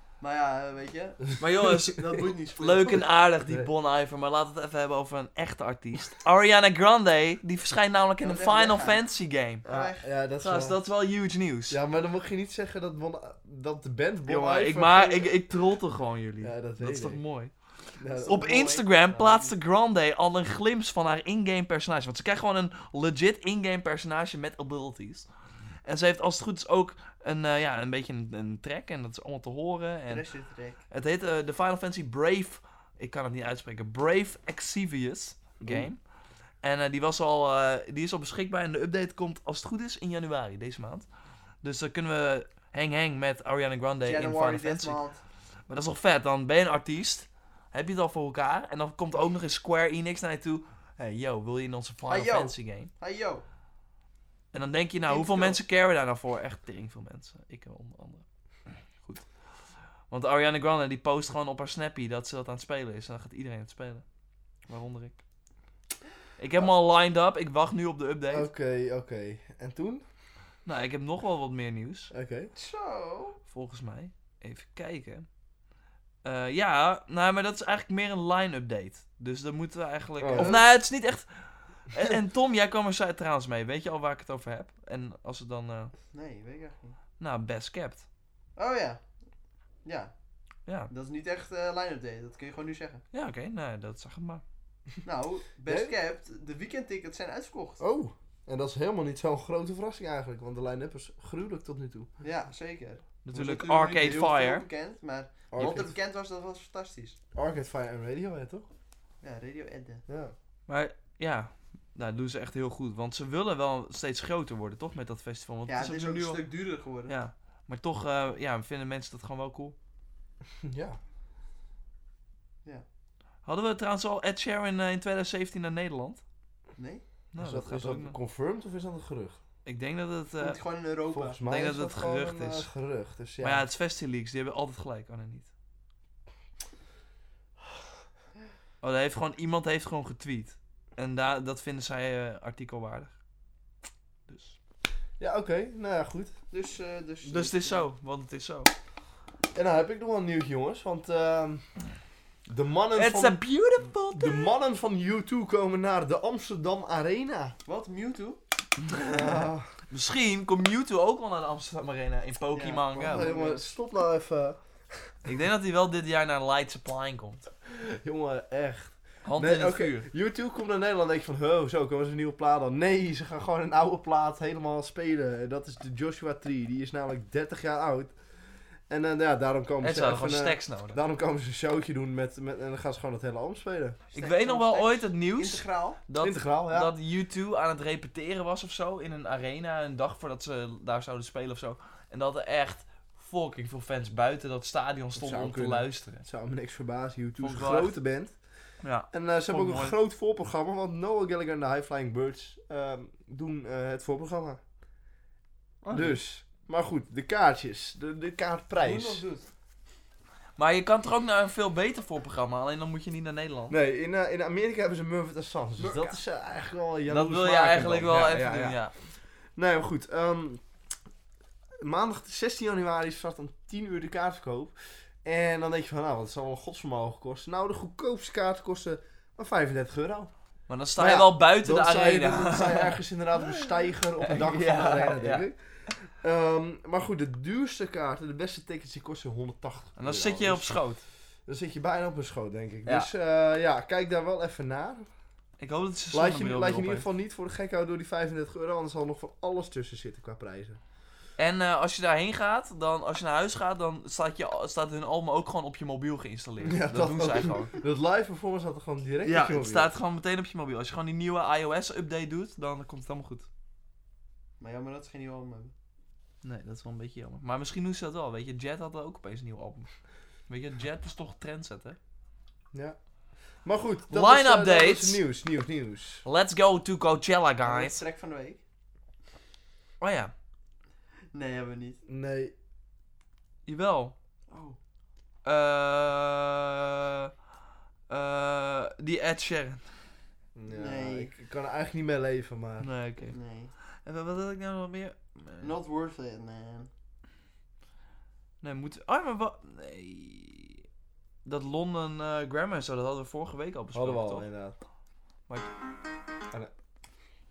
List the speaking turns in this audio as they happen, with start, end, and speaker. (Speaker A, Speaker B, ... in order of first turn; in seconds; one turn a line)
Speaker A: 0.2-1.3
Speaker B: 1.4-9.6
Speaker A: 1.9-3.0
Speaker C: 3.4-3.7
Speaker A: 8.2-9.1
Speaker A: 9.6-10.1
Speaker C: 9.7-10.8
Speaker B: 10.4-11.8
Speaker C: 11.7-15.4
Speaker B: 14.3-17.5
Speaker C: 16.4-17.2
Speaker C: 18.0-18.5
Speaker A: 18.0-19.5
Speaker B: 18.3-25.3
Speaker B: 25.9-30.3
Speaker A: 30.1-30.8
Speaker B: 30.9-36.0
Speaker C: 35.6-35.9
Speaker B: 36.6-41.1
Speaker B: 41.6-45.0
Speaker A: 44.0-45.2
Speaker B: 45.7-52.9
Speaker A: 52.1-53.4
Speaker B: 54.5-59.3
Speaker A: 55.1-55.6
Speaker B: 60.1-64.0
Speaker B: 64.7-65.2
Speaker B: 66.4-68.5
Speaker C: 68.3-70.0
Speaker B: 70.7-72.1
Speaker C: 72.1-72.5
Speaker A: 72.5-73.4
Speaker B: 73.5-75.3
Speaker B: 76.2-81.3
Speaker C: 80.2-80.6
Speaker A: 80.3-80.7
Speaker B: 81.9-85.9
Speaker A: 86.1-87.0
Speaker B: 87.2-88.1
Speaker A: 88.6-89.0
Speaker A: 89.8-90.1
Speaker B: 90.7-90.9
Speaker A: 90.9-93.0
Speaker B: 93.1-94.4
Speaker A: 95.0-97.8
Speaker C: 95.7-95.9
Speaker C: 97.8-102.1
Speaker A: 102.2-107.2
Speaker B: 103.2-104.7
Speaker C: 105.5-105.9
Speaker C: 107.3-108.7
Speaker A: 109.2-110.0
Speaker C: 110.1-110.3
Speaker B: 110.7-116.5
Speaker A: 115.7-117.1
Speaker B: 117.1-119.8
Speaker C: 120.6-121.0
Speaker B: 123.5-126.2
Speaker A: 126.8-127.0
Speaker B: 127.3-128.2
Speaker C: 127.4-129.4
Speaker B: 129.7-130.6
Speaker A: 130.4-131.4
Speaker C: 131.1-133.7
Speaker B: 131.5-132.7
Speaker B: 133.4-135.5
Speaker B: 138.8-143.1
Speaker B: 144.3-144.6
Speaker C: 145.2-146.3
Speaker A: 146.5-147.9
Speaker B: 147.2-148.7
Speaker C: 149.5-151.6
Speaker C: 152.5-153.4
Speaker B: 152.9-154.5
Speaker C: 154.1-157.6
Speaker A: 157.7-158.4
Speaker B: 158.8-159.4
Speaker C: 158.9-159.7
Speaker B: 159.9-163.3
Speaker A: 162.5-163.7
Speaker C: 163.0-165.1
Speaker B: 165.2-167.4
Speaker C: 167.7-178.1
Speaker B: 169.2-170.1
Speaker C: 178.9-184.0
Speaker B: 179.8-181.0
Speaker B: 184.1-196.3
Speaker A: 184.1-186.0
Speaker C: 186.2-186.9
Speaker C: 195.2-198.3
Speaker B: 197.4-198.0
Speaker B: 198.8-200.0
Speaker C: 199.1-204.6
Speaker A: 205.8-206.2
Speaker C: 205.9-209.2
Speaker A: 208.8-209.5
Speaker B: 210.6-213.8
Speaker C: 213.7-218.8
Speaker A: 215.8-216.2
Speaker B: 217.1-218.9
Speaker C: 219.6-220.6
Speaker C: 221.8-230.3
Speaker B: 230.7-235.5
Speaker C: 231.0-240.8
Speaker B: 240.0-241.0
Speaker C: 241.5-245.1
Speaker B: 245.6-247.1
Speaker C: 246.1-250.8
Speaker B: 251.4-257.7
Speaker C: 256.6-259.9
Speaker B: 259.2-263.5
Speaker A: 264.6-265.7
Speaker B: 266.4-269.9
Speaker B: 270.5-272.0
Speaker C: 273.6-276.2
Speaker B: 274.1-275.2
Speaker B: 276.2-278.0
Speaker A: 277.6-278.6
Speaker B: 280.0-280.3
Speaker A: 281.3-282.0
Speaker C: 282.1-282.5
Speaker B: 283.7-284.1
Speaker A: 284.5-284.8
Speaker B: 285.4-287.3
Speaker B: 288.1-289.9
Speaker C: 290.6-292.9
Speaker A: 290.7-291.3
Speaker B: 292.8-293.4
Speaker A: 293.3-293.7
Speaker B: 294.0-295.7
Speaker A: 295.6-296.9
Speaker B: 298.6-300.8
Speaker B: 301.4-304.4
Speaker C: 303.9-304.8